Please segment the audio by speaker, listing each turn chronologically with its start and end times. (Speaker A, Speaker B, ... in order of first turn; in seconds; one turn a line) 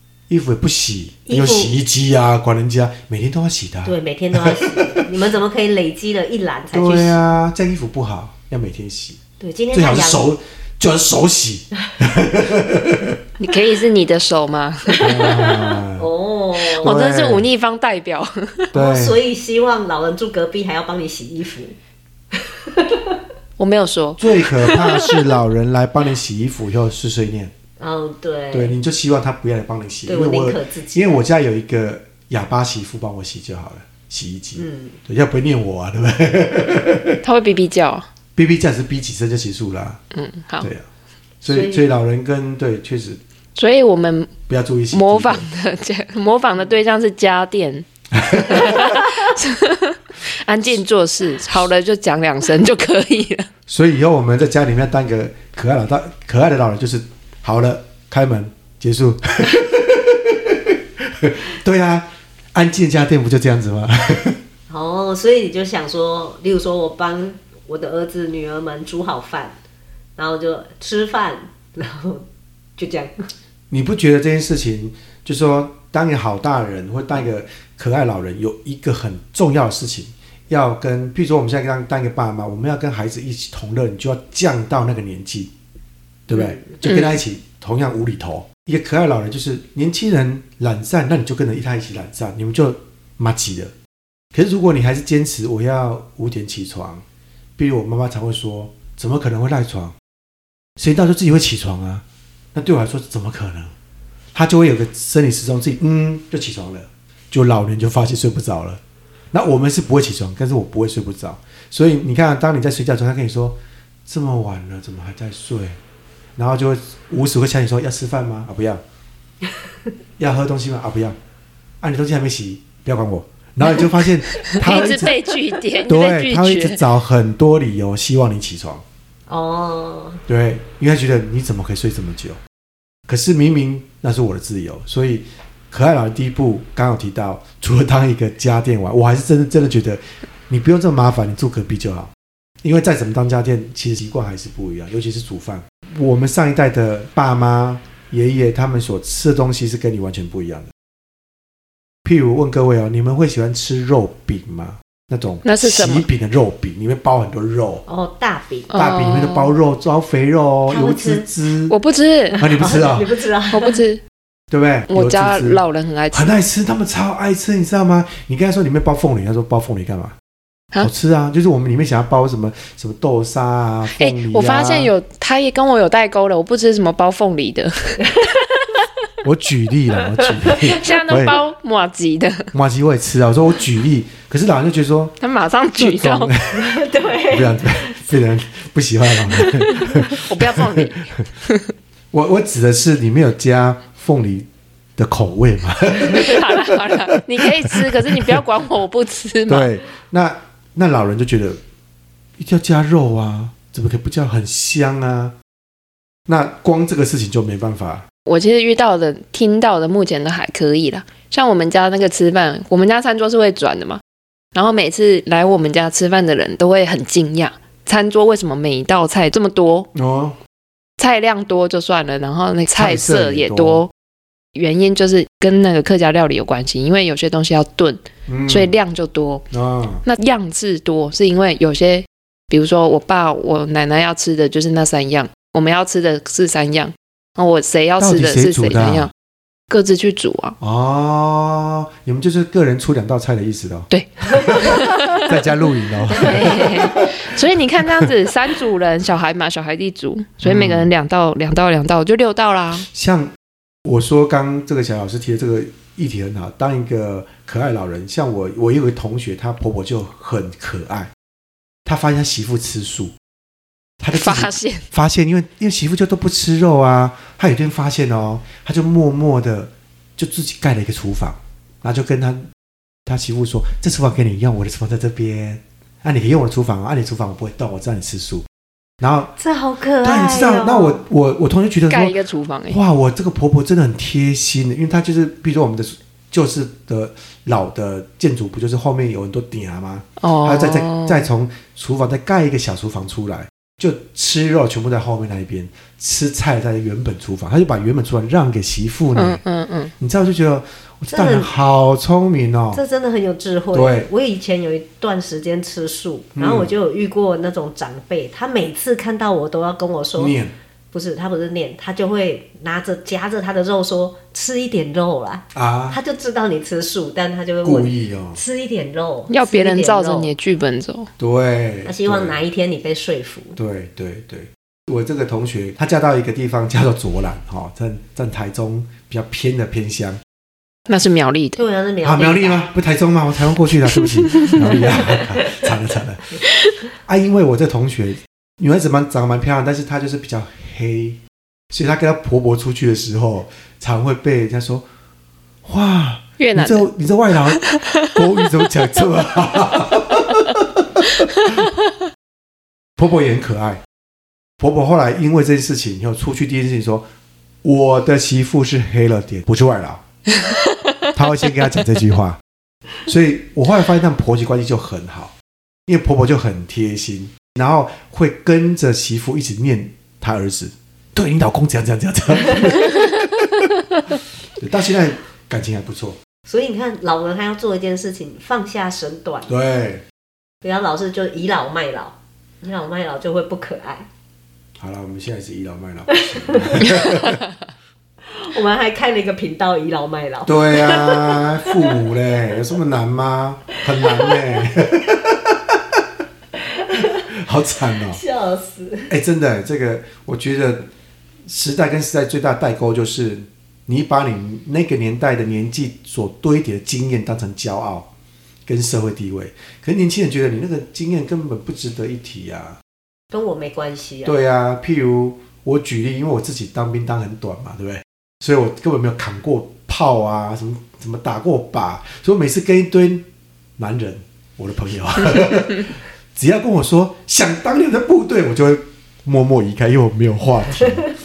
Speaker A: 0.3-5.1
Speaker B: 1.3-1.7
Speaker B: 3.9-7.2
Speaker A: 6.7-9.2
Speaker B: 9.4-10.3
Speaker A: 9.7-13.2
Speaker C: 13.4-15.2
Speaker B: 15.0-17.0
Speaker A: 15.0-16.1
Speaker C: 16.8-18.7
Speaker A: 16.8-17.5
Speaker A: 18.7-19.2
Speaker B: 18.7-21.8
Speaker B: 22.3-23.2
Speaker C: 23.6-25.3
Speaker A: 24.2-27.5
Speaker B: 27.8-28.8
Speaker A: 28.5-37.2
Speaker B: 30.1-31.2
Speaker B: 34.5-35.0
Speaker C: 37.2-38.1
Speaker A: 38.4-40.0
Speaker C: 40.1-40.7
Speaker A: 40.6-40.9
Speaker A: 41.4-43.2
Speaker B: 41.5-41.9
Speaker C: 43.6-47.9
Speaker A: 44.5-45.5
Speaker A: 48.1-49.0
Speaker C: 48.4-53.5
Speaker A: 53.7-64.4
Speaker B: 64.7-69.6
Speaker B: 70.2-72.3
Speaker B: 72.8-73.3
Speaker A: 73.7-85.5
Speaker A: 86.3-93.7
Speaker B: 86.3-86.8
Speaker C: 86.8-87.2
Speaker A: 94.3-97.0
Speaker A: 97.6-100.0
Speaker A: 100.8-103.8
Speaker A: 104.3-108.8
Speaker A: 109.3-115.8
Speaker A: 116.4-118.8
Speaker A: 120.2-121.2
Speaker A: 121.8-125.2
Speaker C: 124.5-126.8
Speaker A: 125.9-128.8
Speaker B: 129.3-130.2
Speaker A: 130.3-132.4
Speaker A: 133.1-150.7
Speaker A: 152.0-157.8
Speaker C: 155.4-156.1
Speaker B: 157.9-158.7
Speaker C: 158.7-159.5
Speaker A: 158.7-161.8
Speaker B: 160.7-161.3
Speaker C: 161.7-162.4
Speaker A: 162.4-163.1
Speaker B: 162.4-163.8
Speaker C: 163.5-164.0
Speaker A: 164.5-170.2
Speaker C: 164.9-166.3
Speaker A: 170.8-174.9
Speaker C: 174.0-178.4
Speaker A: 179.2-181.4
Speaker C: 180.6-182.5
Speaker A: 182.5-185.2
Speaker C: 185.2-186.3
Speaker A: 185.8-191.0
Speaker B: 186.5-188.0
Speaker C: 189.6-191.7
Speaker A: 192.1-198.4
Speaker C: 196.0-199.7
Speaker A: 199.5-201.6
Speaker A: 202.4-205.3
Speaker A: 206.3-208.1
Speaker C: 208.3-214.0
Speaker C: 214.5-219.9
Speaker A: 219.9-220.4
Speaker C: 221.0-223.9
Speaker A: 222.8-223.8
Speaker C: 224.6-229.5
Speaker A: 228.3-228.7
Speaker A: 229.5-230.0
Speaker C: 230.1-239.1
Speaker A: 238.0-239.1
Speaker C: 239.7-240.6
Speaker A: 240.6-248.1
Speaker C: 243.9-245.4
Speaker C: 246.1-252.9
Speaker A: 250.4-250.9
Speaker A: 252.9-261.1
Speaker A: 261.9-263.1
Speaker A: 264.0-272.5
Speaker C: 264.1-264.8
Speaker A: 273.1-278.5
Speaker A: 279.0-279.3
Speaker B: 279.4-281.0
Speaker A: 280.0-282.2
Speaker C: 281.9-282.8
Speaker A: 282.7-299.4
Speaker C: 290.2-291.3
Speaker C: 299.1-299.9
Speaker A: 300.0-302.8
Speaker B: 301.1-301.5
Speaker B: 302.7-310.4
Speaker A: 303.7-304.1
Speaker A: 306.4-306.7
Speaker A: 310.2-310.5
Speaker B: 310.9-320.3
Speaker A: 315.5-316.0
Speaker A: 317.6-318.4
Speaker C: 319.3-321.1
Speaker A: 321.2-322.4
Speaker B: 321.9-323.6
Speaker A: 323.6-330.2
Speaker C: 330.9-331.6
Speaker B: 331.6-332.7
Speaker A: 332.0-336.4
Speaker C: 334.2-334.9
Speaker A: 337.1-341.2
Speaker A: 341.7-344.9
Speaker A: 345.6-351.1
Speaker C: 346.4-346.9
Speaker C: 347.5-348.1
Speaker C: 351.2-351.6
Speaker A: 353.0-353.8
Speaker A: 354.6-357.1
Speaker A: 357.6-360.0
Speaker C: 360.5-360.9
Speaker A: 361.1-362.4
Speaker A: 363.1-365.3
Speaker A: 365.9-373.8
Speaker A: 374.6-376.2
Speaker B: 376.5-379.5
Speaker A: 379.5-380.0
Speaker B: 380.6-384.1
Speaker A: 384.8-387.4
Speaker B: 386.1-387.2
Speaker B: 388.3-392.0
Speaker A: 390.4-396.0
Speaker B: 393.9-394.4
Speaker B: 396.6-397.3
Speaker A: 397.0-398.2
Speaker B: 398.0-399.1
Speaker A: 399.1-400.9
Speaker A: 401.4-408.1
Speaker A: 408.7-412.8
Speaker B: 413.3-414.4
Speaker A: 414.2-423.2
Speaker A: 423.8-431.1